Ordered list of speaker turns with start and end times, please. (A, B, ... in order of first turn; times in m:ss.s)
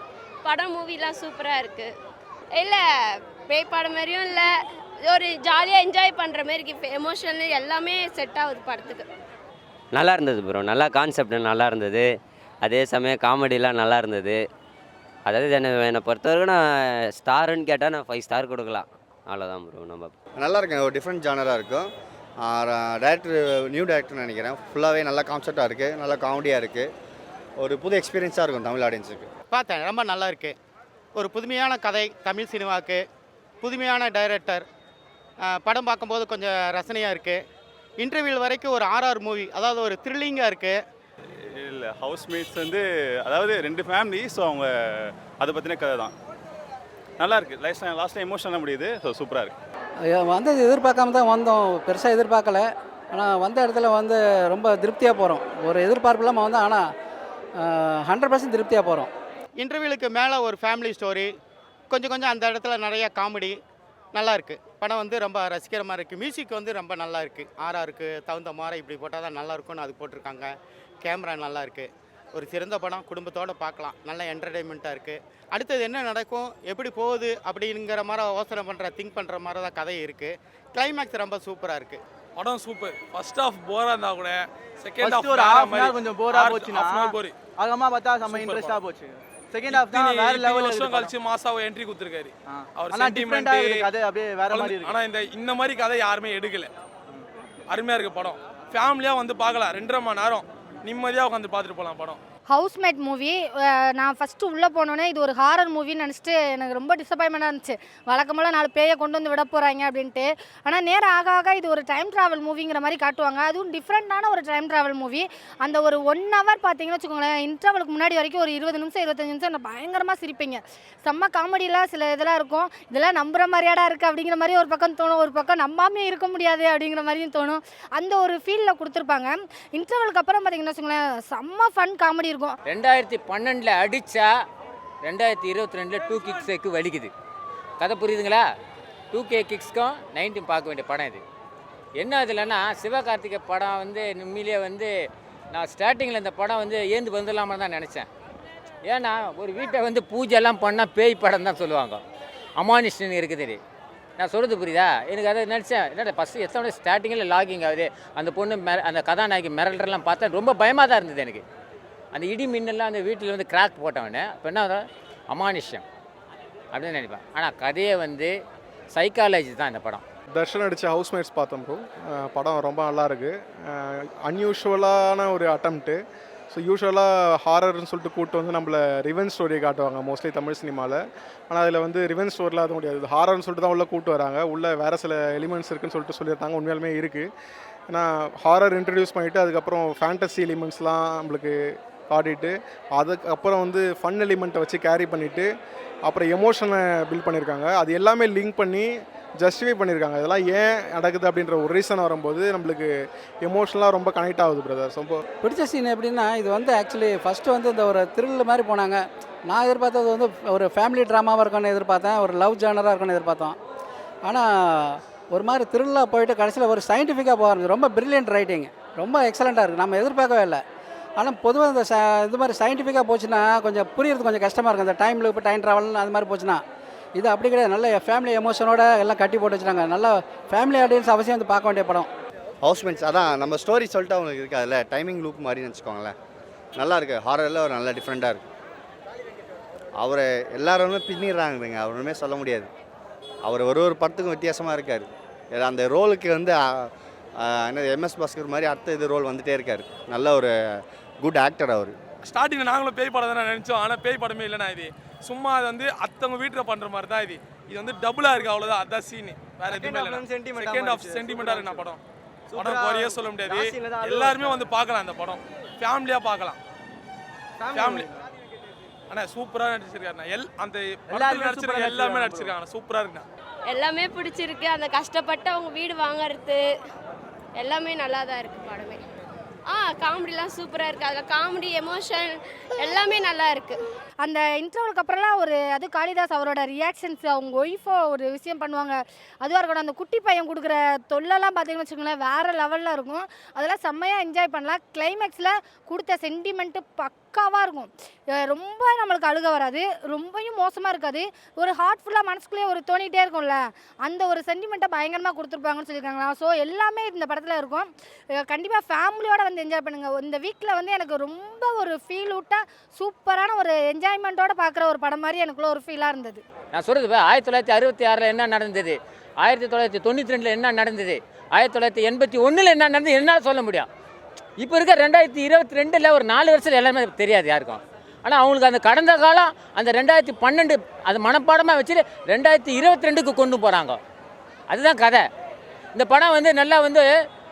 0:00.4-0:01.9 A
0:02.6-0:04.5 A
0:05.0-0:09.1 A
0:09.9-0:12.1 B
0:12.6-0:14.4 B
0:15.2-0:20.1 B
0:20.4-0:21.9 C
0:22.4-0:26.9 C
0:27.6-0:29.3 C
0:29.5-0:30.6 D
0:31.2-0:33.0 D
0:33.6-0:34.6 D
0:35.4-0:37.4 D
0:38.0-0:40.8 D
0:41.7-0:44.7 E
0:45.3-0:46.1 E
0:47.2-0:49.5 E
0:50.0-0:56.8 F
0:57.6-0:59.1 F
0:59.6-1:01.3 D
1:01.9-1:03.6 D
1:04.1-1:22.0 D
1:22.4-1:27.4 G
1:25.0-1:31.1 H
1:28.3-1:28.8 G
1:29.7-1:33.9 G
1:32.5-1:34.9 H
1:34.5-1:36.7 G
1:37.7-1:42.2 G
1:42.5-2:12.6 I
2:12.6-2:14.3 J
2:15.0-2:17.1 J
2:17.8-2:18.5 J
2:19.1-2:21.2 J
2:22.0-2:24.9 J
2:25.5-2:28.1 J
2:28.8-2:32.0 J
2:32.6-2:33.6 J
2:34.2-2:41.4 J
2:42.1-2:45.8 J
2:46.7-2:48.4 J
2:48.9-2:50.0 J
2:50.3-2:56.0 K
2:56.5-3:01.0 K
3:01.5-3:07.3 K
3:07.9-3:11.5 K
3:12.1-3:15.5 K
3:16.0-3:18.9 K
3:19.4-3:22.9 K
3:23.4-3:25.2 K
3:25.4-3:33.6 F
3:34.2-3:40.6 F
3:41.2-3:46.6 F
3:47.2-3:52.1 F
3:52.6-3:56.1 C
3:56.8-3:58.4 C
4:00.0-4:02.7 C
4:03.4-4:12.0 C
4:12.2-4:22.0 G
4:19.7-4:21.8 H
4:22.5-4:24.6 H
4:22.5-4:26.6 G
4:27.6-4:28.1 H
4:27.7-4:28.1 G
4:29.1-4:33.2 G
4:31.1-4:32.5 H
4:33.7-4:36.6 A
4:37.5-4:39.0 A
4:39.7-4:43.8 A
4:44.2-4:57.9 I
4:58.4-5:07.9 I
5:08.4-5:16.4 I
5:16.7-5:23.9 J
5:24.6-5:34.0 J
5:34.7-5:35.2 J
5:35.9-5:37.1 J